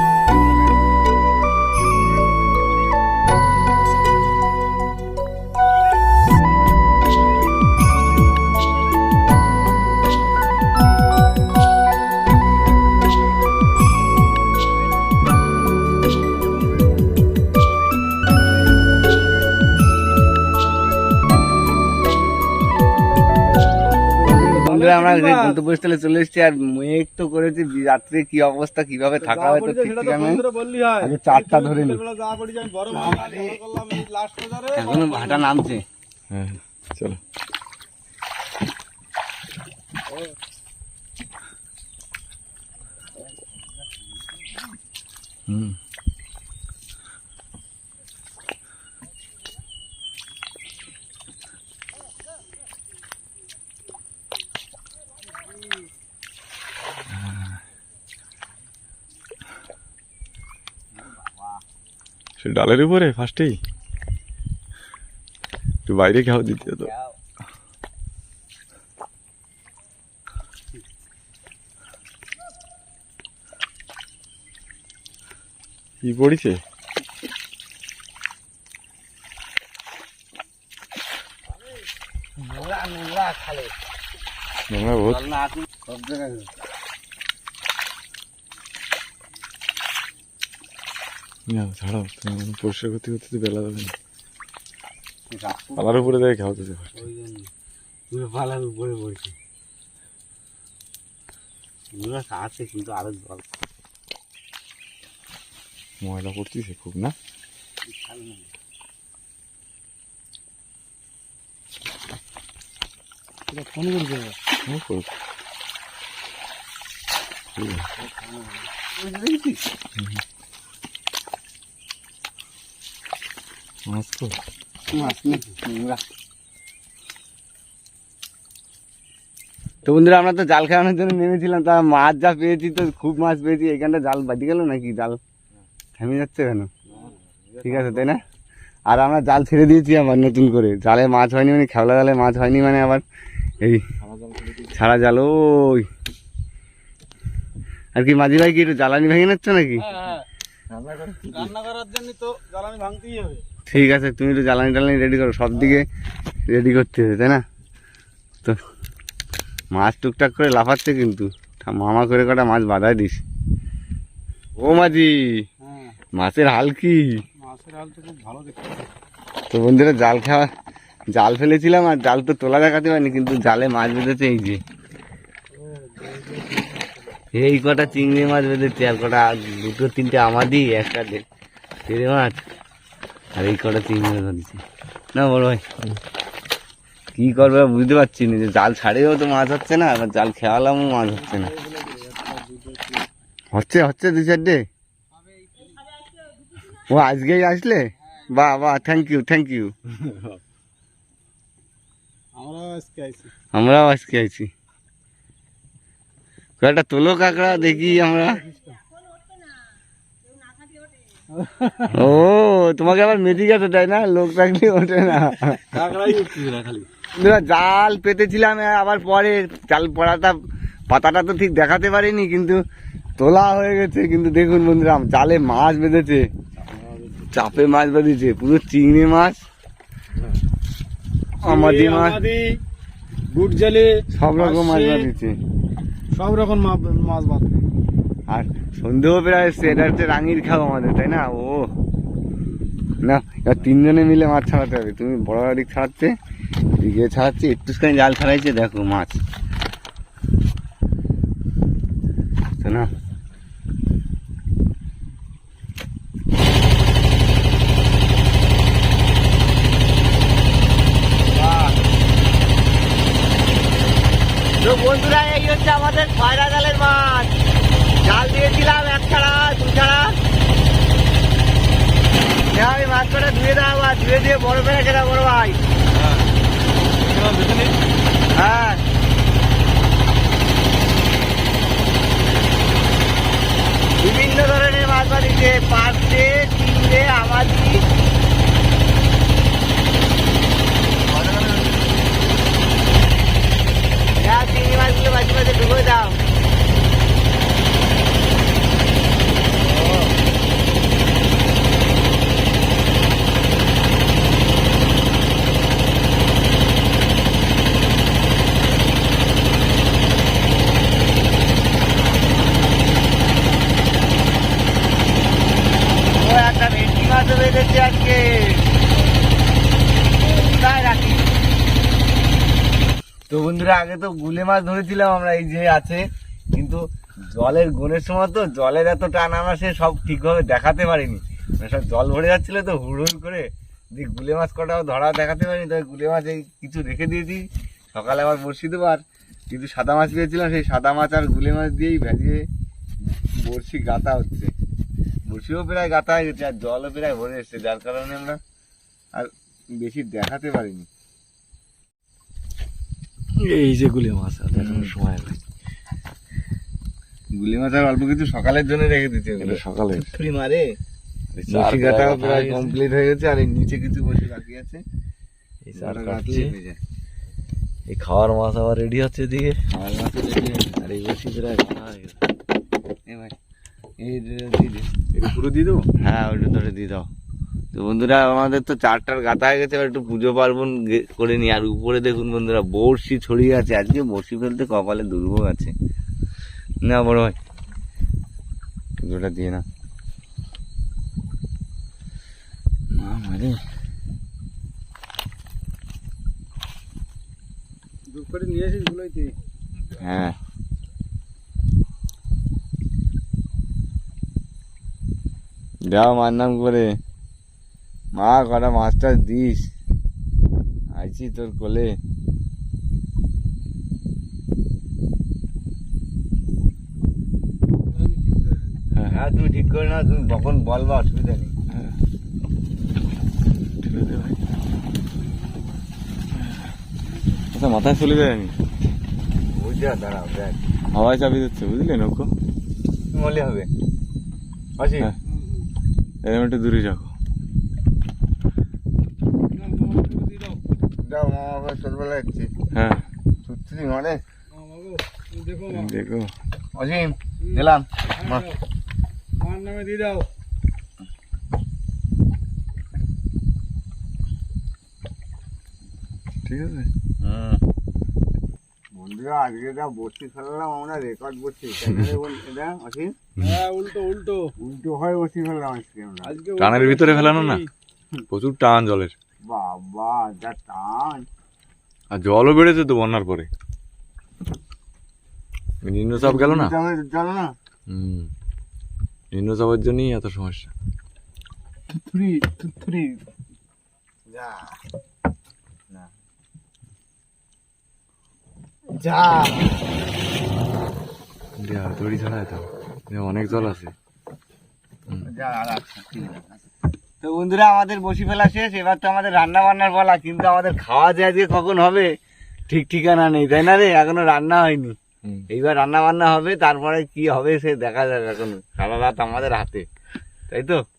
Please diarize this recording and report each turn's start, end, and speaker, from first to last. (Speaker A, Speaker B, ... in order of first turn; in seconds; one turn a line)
Speaker A: 24.3-25.6
Speaker B: 24.3-30.4
Speaker A: 29.2-35.5
Speaker B: 31.0-32.0
Speaker B: 33.0-33.6
Speaker B: 34.8-35.8
Speaker C: 36.3-37.2
Speaker C: 57.1-57.6
Speaker C: 62.4-63.6
Speaker C: 65.9-66.9
Speaker B: 66.7-67.1
Speaker C: 76.0-76.6
Speaker B: 82.4-83.7
Speaker C: 84.7-85.3
Speaker B: 85.8-86.5
Speaker C: 91.5-94.0
Speaker B: 95.3-96.1
Speaker C: 95.8-96.9
Speaker B: 97.0-97.4
Speaker B: 98.1-99.3
Speaker B: 101.9-103.4
Speaker C: 106.0-107.2
Speaker B: 107.9-108.5
Speaker A: 113.5-114.4
Speaker C: 114.7-115.1
Speaker C: 117.6-117.9
Speaker B: 119.0-119.6
Speaker C: 123.9-124.4
Speaker B: 124.9-126.0
Speaker B: 129.8-135.2
Speaker B: 136.0-136.7
Speaker C: 136.9-138.1
Speaker B: 137.6-138.2
Speaker B: 138.9-143.1
Speaker C: 144.0-144.8
Speaker B: 144.7-145.9
Speaker B: 147.9-149.9
Speaker A: 149.8-150.2
Speaker C: 150.7-151.5
Speaker A: 151.3-153.4
Speaker B: 153.7-155.9
Speaker B: 156.5-157.4
Speaker B: 159.7-163.2
Speaker B: 164.6-165.4
Speaker A: 165.6-166.0
Speaker B: 166.2-167.2
Speaker A: 167.4-168.9
Speaker B: 169.5-170.5
Speaker B: 171.1-174.6
Speaker A: 175.6-176.9
Speaker B: 177.3-181.2
Speaker B: 181.9-182.4
Speaker B: 183.4-184.6
Speaker B: 185.1-185.6
Speaker B: 187.2-191.5
Speaker A: 191.1-193.1
Speaker B: 193.5-194.6
Speaker B: 196.8-199.7
Speaker C: 199.9-200.4
Speaker A: 202.4-203.3
Speaker B: 203.5-204.5
Speaker B: 206.6-208.4
Speaker A: 207.5-208.8
Speaker A: 211.3-212.0
Speaker B: 211.9-215.8
Speaker A: 215.7-216.9
Speaker B: 217.1-220.4
Speaker B: 220.9-222.6
Speaker B: 223.2-226.3
Speaker A: 226.7-227.0
Speaker B: 227.3-229.4
Speaker A: 231.4-232.6
Speaker B: 231.4-232.2
Speaker A: 233.3-235.1
Speaker B: 234.1-235.4
Speaker A: 236.1-237.6
Speaker B: 238.3-241.7
Speaker B: 243.0-246.1
Speaker B: 246.8-249.2
Speaker B: 252.6-252.9
Speaker B: 261.3-261.8
Speaker B: 264.6-267.3
Speaker B: 268.0-270.2
Speaker B: 272.5-275.6
Speaker C: 275.9-276.3
Speaker C: 277.0-277.7
Speaker B: 278.3-278.8
Speaker B: 284.0-287.9
Speaker B: 291.0-291.9
Speaker B: 294.2-296.2
Speaker B: 316.1-318.7
Speaker B: 320.2-321.3
Speaker B: 323.3-342.4
Speaker B: 343.3-344.5
Speaker B: 345.3-348.4
Speaker B: 349.1-350.9
Speaker C: 353.4-355.4
Speaker B: 354.6-354.9
Speaker B: 357.3-360.8
Speaker C: 359.4-360.2
Speaker C: 361.3-362.8
Speaker B: 361.5-364.8
Speaker C: 365.6-366.6
Speaker B: 365.8-366.8
Speaker C: 367.9-369.8
Speaker B: 369.7-370.6
Speaker C: 370.5-372.2
Speaker B: 373.1-373.4
Speaker B: 374.0-374.9
Speaker C: 375.1-375.9
Speaker B: 376.0-377.1
Speaker B: 377.7-385.7
Speaker C: 386.8-387.4
Speaker C: 389.0-389.6
Speaker C: 392.9-393.6
Speaker A: 398.1-399.4
Speaker B: 400.0-400.4
Speaker B: 405.9-407.0
Speaker B: 408.1-409.7
Speaker B: 410.9-412.0
Speaker A: 417.9-418.8
Speaker B: 419.1-421.5
Speaker C: 421.7-422.0
Speaker C: 423.8-424.4
Speaker C: 426.4-426.7
Speaker C: 427.5-428.6
Speaker B: 429.5-430.6
Speaker C: 430.9-432.3
Speaker B: 433.1-433.7
Speaker B: 434.8-435.1
Speaker A: 435.2-435.7
Speaker C: 436.2-437.1
Speaker A: 439.5-440.6
Speaker B: 441.0-442.5
Speaker C: 442.7-443.0
Speaker B: 443.4-444.2
Speaker A: 444.5-445.9
Speaker C: 445.7-446.3
Speaker B: 446.8-448.5
Speaker A: 447.4-448.6
Speaker A: 449.4-450.3
Speaker C: 456.4-456.9
Speaker B: 457.2-457.6
Speaker B: 458.9-463.1
Speaker A: 463.4-464.5
Speaker B: 464.6-466.3
Speaker A: 466.2-467.7
Speaker C: 466.6-467.6
Speaker C: 468.3-469.1
Speaker B: 469.5-471.3
Speaker C: 472.1-473.5
Speaker C: 475.8-476.8
Speaker B: 476.1-477.6
Speaker C: 477.9-478.3
Speaker C: 479.3-480.7
Speaker B: 482.1-483.2
Speaker B: 484.3-484.8
Speaker B: 488.9-489.9
Speaker C: 491.6-493.9
Speaker B: 495.2-496.6
Speaker B: 497.2-502.1
Speaker B: 502.7-505.0
Speaker C: 505.2-505.5
Speaker B: 505.5-509.9
Speaker B: 510.5-510.8